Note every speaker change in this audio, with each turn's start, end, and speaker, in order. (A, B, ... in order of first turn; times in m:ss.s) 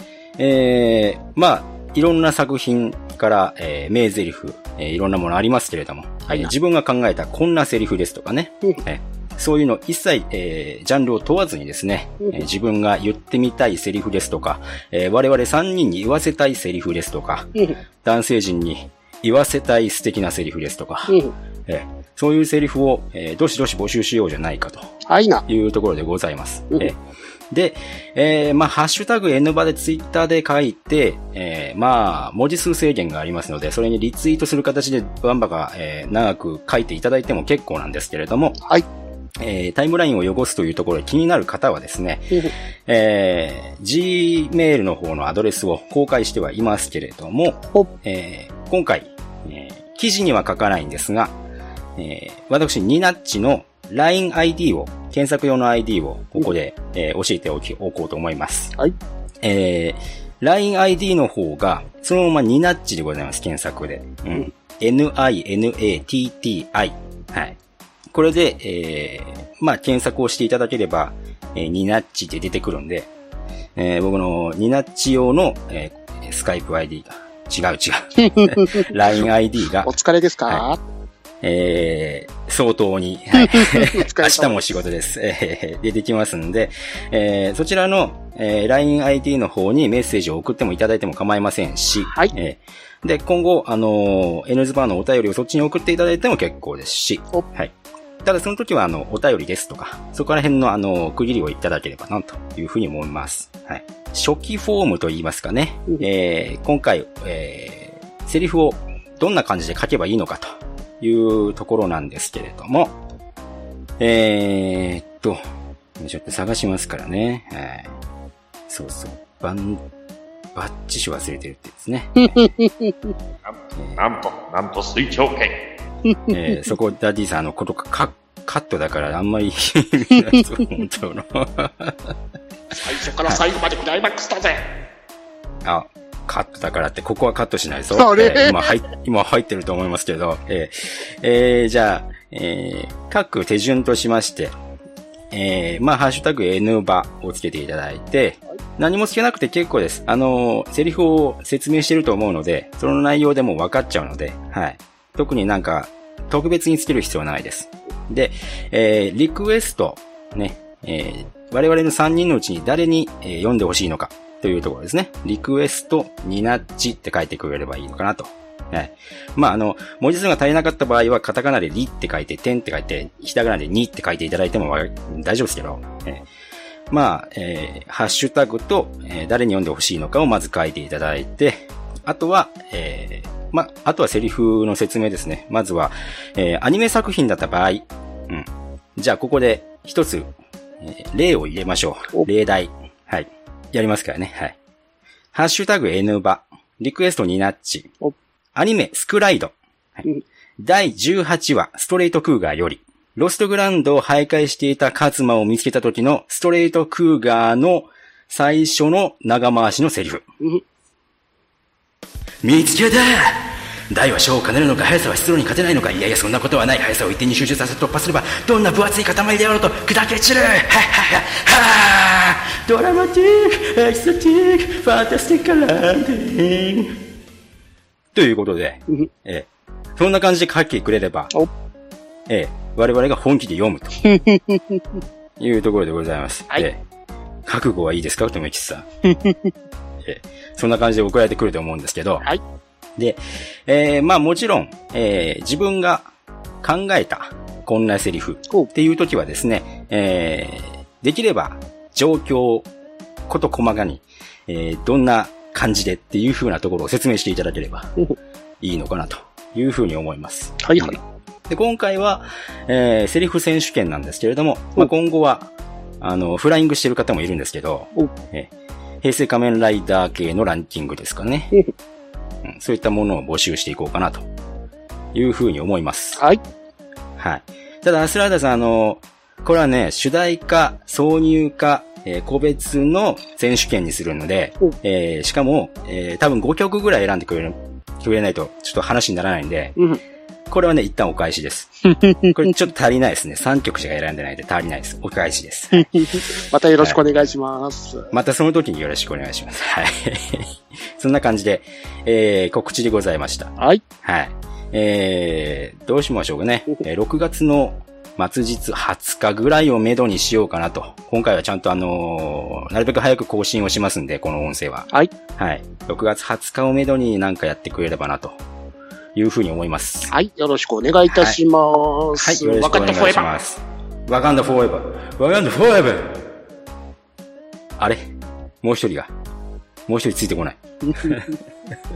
0:00.4-0:24.8 A
0:21.1-0:21.3 B
0:25.1-0:25.4 B
0:25.5-0:27.0 A
0:27.5-0:38.6 A
0:39.4-0:51.3 A
0:52.0-0:58.7 A
0:59.4-1:07.6 A
1:08.1-1:13.1 A
1:13.8-1:19.9 A
1:18.2-1:18.9 B
1:19.8-1:20.8 B
1:21.4-1:53.0 A
1:23.4-1:24.8 B
1:32.0-1:32.3 B
1:54.0-1:55.4 A
1:56.0-1:57.9 A
1:58.7-1:59.8 A
2:00.5-2:02.4 A
2:02.4-2:02.9 B
2:03.5-2:05.6 C
2:03.8-2:04.1 A
2:06.3-2:12.1 A
2:12.7-2:14.6 B
2:15.6-2:24.6 A
2:17.9-2:18.8 B
2:25.3-2:56.2 A
2:56.9-3:10.3 A
3:10.8-3:14.6 A
3:15.3-3:17.9 A
3:18.6-3:20.1 A
3:20.6-3:30.2 A
3:32.4-3:46.9 A
3:48.1-3:51.3 A
3:52.3-3:54.0 A
3:54.0-3:54.8 B
3:55.4-3:56.8 A
3:57.4-3:58.9 A
3:59.1-3:59.5 B
4:00.0-4:02.3 A
4:03.0-4:06.1 A
4:06.6-4:12.7 A
4:13.3-4:18.0 A
4:18.6-4:28.5 A
4:20.6-4:21.0 B
4:29.0-4:31.6 A
4:32.4-4:34.3 A
4:35.1-4:36.2 A
4:37.2-4:49.8 A
4:50.5-4:51.7 A
4:51.8-4:52.4 B
4:52.4-4:55.9 A
4:55.7-4:58.1 B
4:58.1-5:18.4 A
5:03.6-5:03.8 B
5:19.1-5:20.1 A
5:20.1-5:23.3 B
5:21.1-5:21.4 A
5:22.2-5:26.2 A
5:28.6-5:29.1 A
5:29.9-5:31.2 A
5:30.9-5:31.3 B